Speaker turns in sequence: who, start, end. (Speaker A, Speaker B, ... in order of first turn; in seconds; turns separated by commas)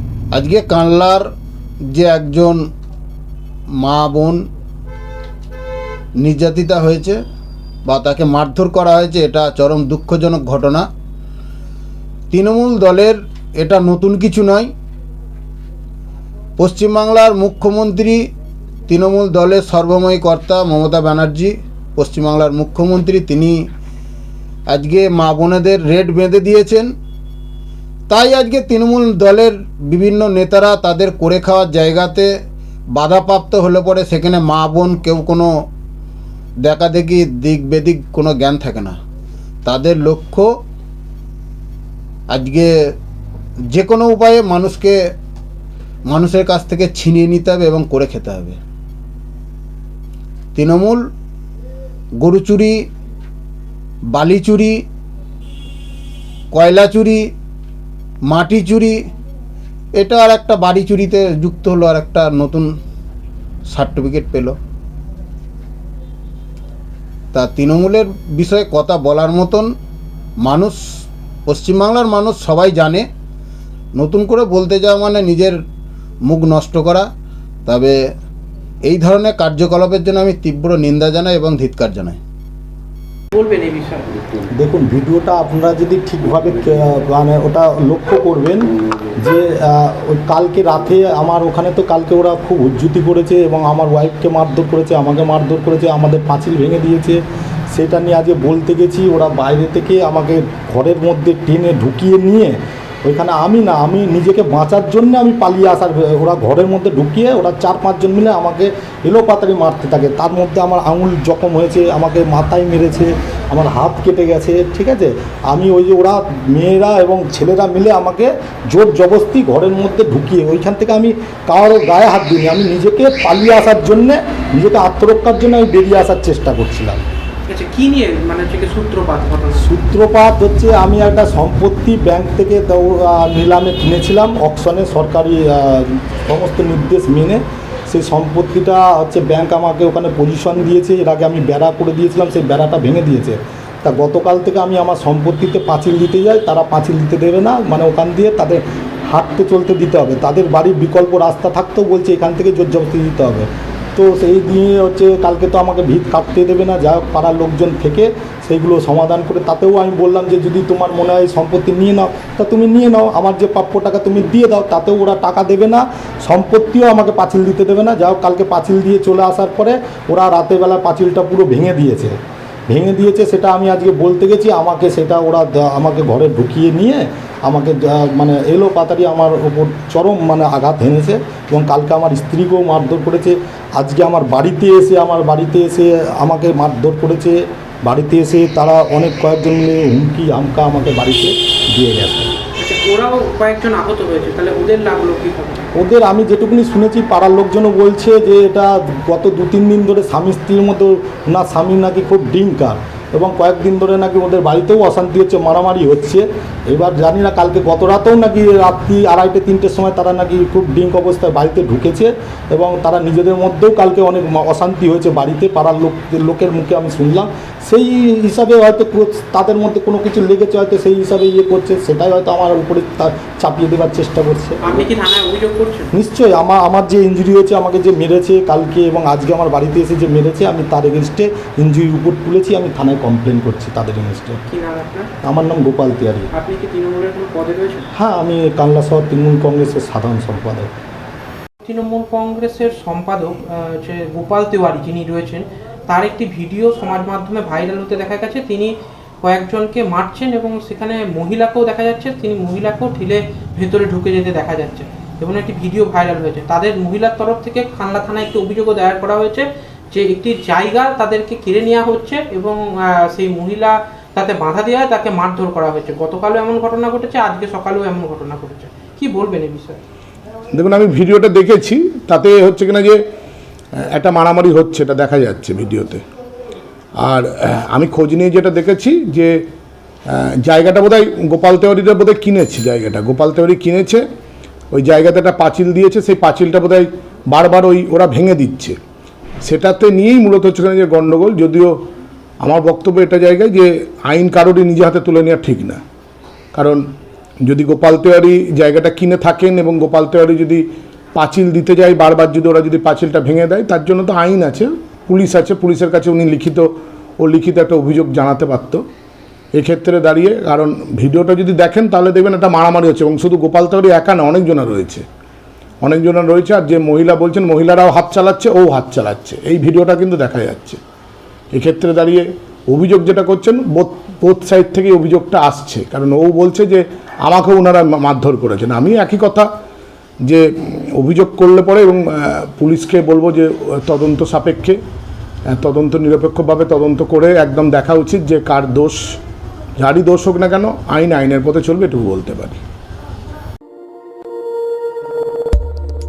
Speaker A: 0.3-1.3, Speaker A: 1.9-2.6, Speaker A: 3.8-4.4, Speaker A: 6.2-7.2, Speaker A: 7.9-10.9, Speaker A: 12.3-14.7, Speaker A: 16.6-18.2, Speaker A: 18.9-23.7, Speaker A: 24.7-26.9, Speaker A: 28.1-32.3, Speaker A: 33.0-35.5, Speaker A: 36.6-39.0, Speaker A: 39.6-40.5, Speaker A: 42.3-42.7, Speaker A: 43.7-45.0, Speaker A: 46.1-48.6, Speaker A: 50.5-51.0, Speaker A: 52.2-52.8, Speaker A: 54.1-54.8, Speaker A: 56.5-57.3, Speaker A: 58.3-59.0, Speaker A: 60.0-62.7, Speaker A: 63.7-64.5, Speaker A: 67.3-69.7, Speaker A: 70.4-73.1, Speaker A: 74.0-75.6, Speaker A: 76.3-77.1, Speaker A: 77.7-78.0, Speaker A: 78.9-82.2, Speaker B: 83.3-84.1, Speaker C: 84.5-127.1, Speaker B: 127.5-129.7, Speaker C: 129.5-172.2, Speaker C: 172.7-192.3, Speaker B: 192.6-195.7, Speaker C: 195.8-224.6, Speaker B: 224.6-225.9, Speaker C: 225.9-234.4, Speaker B: 234.5-235.1, Speaker C: 235.2-236.3, Speaker B: 236.3-237.9, Speaker C: 238.0-240.7, Speaker B: 241.7-269.8, Speaker D: 270.5-273.0, Speaker D: 273.9-276.0, Speaker D: 277.0-279.4, Speaker D: 280.1-284.0, Speaker D: 284.7-288.8, Speaker D: 289.4-291.8, Speaker D: 292.4-295.8, Speaker D: 296.5-296.8, Speaker D: 297.4-308.8, Speaker D: 309.5-315.1, Speaker D: 315.8-320.8, Speaker D: 321.5-329.5, Speaker D: 330.3-334.8, Speaker D: 335.6-339.2, Speaker D: 339.8-342.6